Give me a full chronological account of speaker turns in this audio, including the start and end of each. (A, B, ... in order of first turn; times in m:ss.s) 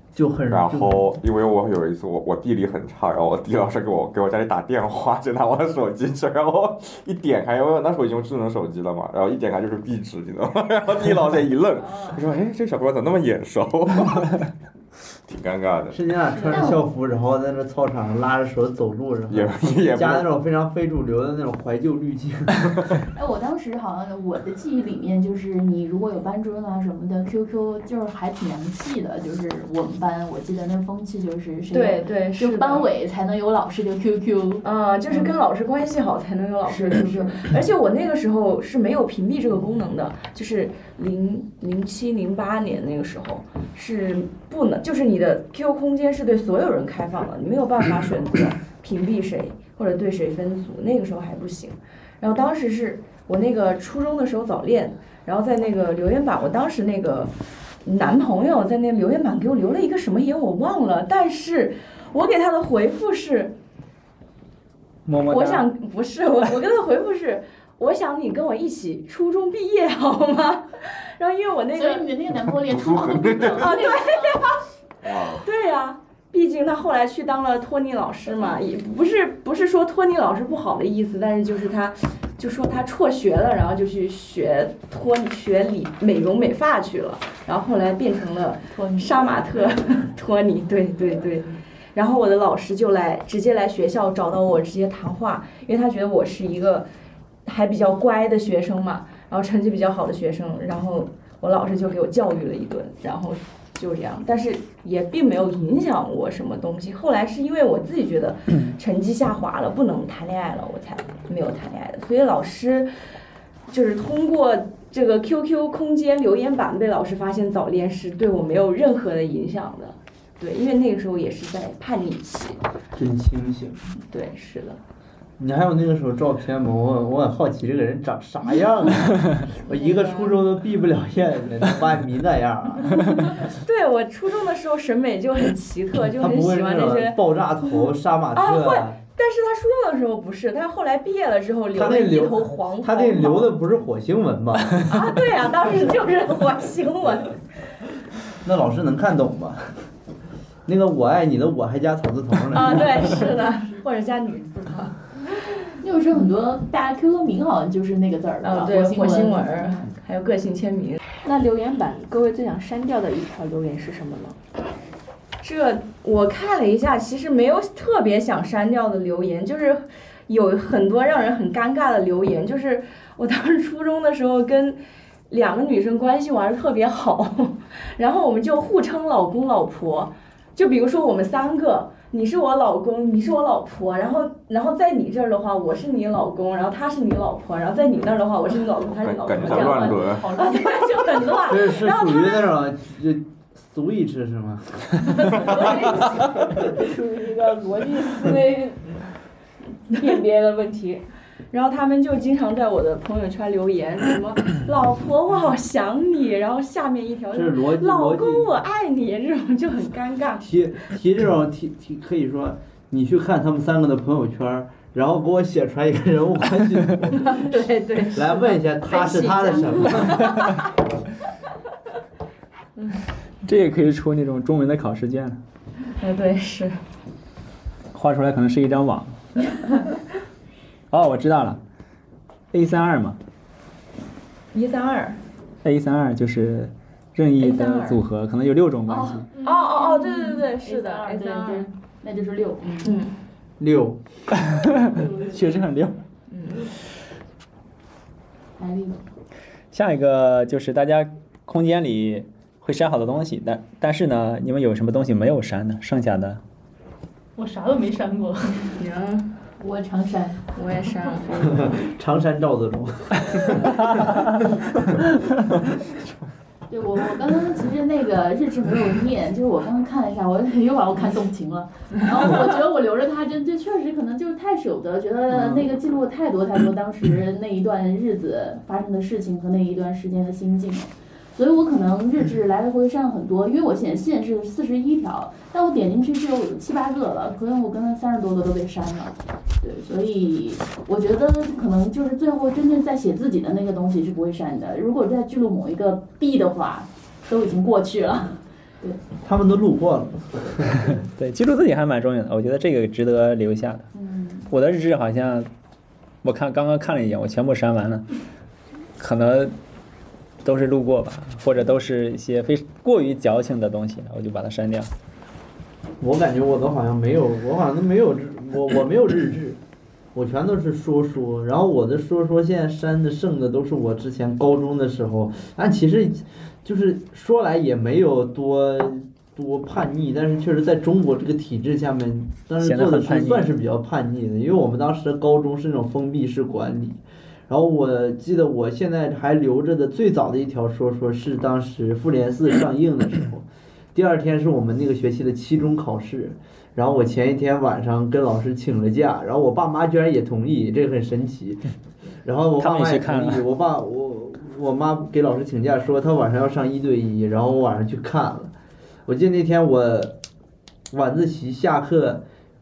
0:00.1-0:01.1 A
0:00.5-0:14.5 B
0:15.2-0:16.0 B
0:15.9-0:22.8 A
0:16.4-0:16.8 C
0:19.3-0:20.3 B
0:23.1-0:35.4 C
0:31.7-0:32.9 D
0:34.6-1:03.5 D
0:36.6-0:37.5 C
1:05.0-1:05.6 E
1:05.2-1:12.1 D
1:11.7-1:14.5 C
1:12.4-1:13.7 B
1:13.5-1:14.6 D
1:15.0-1:15.4 B
1:15.2-1:36.9 D
1:28.7-1:29.3 C
1:37.4-1:52.9 D
1:53.7-2:02.6 D
2:03.0-2:03.8 A
2:04.1-2:04.8 D
2:05.4-2:13.2 A
2:09.7-2:10.4 D
2:13.1-2:17.2 D
2:16.1-2:19.0 A
2:18.3-2:23.6 D
2:21.7-2:25.0 A
2:24.8-2:27.4 D
2:28.4-2:29.7 A
2:30.6-2:33.2 A
2:32.5-2:34.9 D
2:35.8-2:39.9 C
2:38.4-2:41.0 D
2:41.2-2:44.4 F
2:45.4-3:12.5 D
3:09.0-3:10.3 B
3:09.9-3:11.4 G
3:11.5-3:15.1 A
3:15.3-3:18.9 F
3:15.4-3:15.8 D
3:19.9-3:21.0 F
3:21.5-3:30.5 D
3:27.3-3:28.5 A
3:30.4-3:37.5 A
3:37.1-3:40.6 D
3:38.1-3:40.4 A
3:43.4-3:45.4 E
3:46.0-3:46.8 D
3:47.9-3:49.2 E
3:50.9-3:51.6 E
3:52.5-3:53.2 E
3:54.5-3:55.2 D
3:55.6-3:59.3 E
3:57.4-3:58.0 D
3:58.9-3:59.2 C
3:59.4-4:01.7 D
3:59.9-4:03.0 C
4:02.6-4:03.2 D
4:03.6-4:04.0 A
4:04.3-4:06.0 E
4:04.9-4:05.3 C
4:06.3-4:06.7 D
4:08.6-4:09.0 C
4:09.7-4:16.4 E
4:17.4-4:18.7 G
4:18.8-4:19.3 D
4:19.6-4:21.3 C
4:20.5-4:21.5 D
4:21.4-4:24.2 A
4:26.7-4:59.0 C
4:59.2-5:01.0 A
5:00.9-5:03.9 E
5:03.9-5:04.5 C
5:04.5-5:05.5 E
5:06.2-5:08.0 E
5:09.0-5:09.5 E
5:10.4-5:14.9 E
5:16.0-5:19.6 A
5:20.1-5:51.6 A
5:32.6-5:33.5 E
5:52.2-5:58.5 A
5:52.6-5:53.4 E
5:59.0-6:00.2 A
6:00.9-6:02.2 A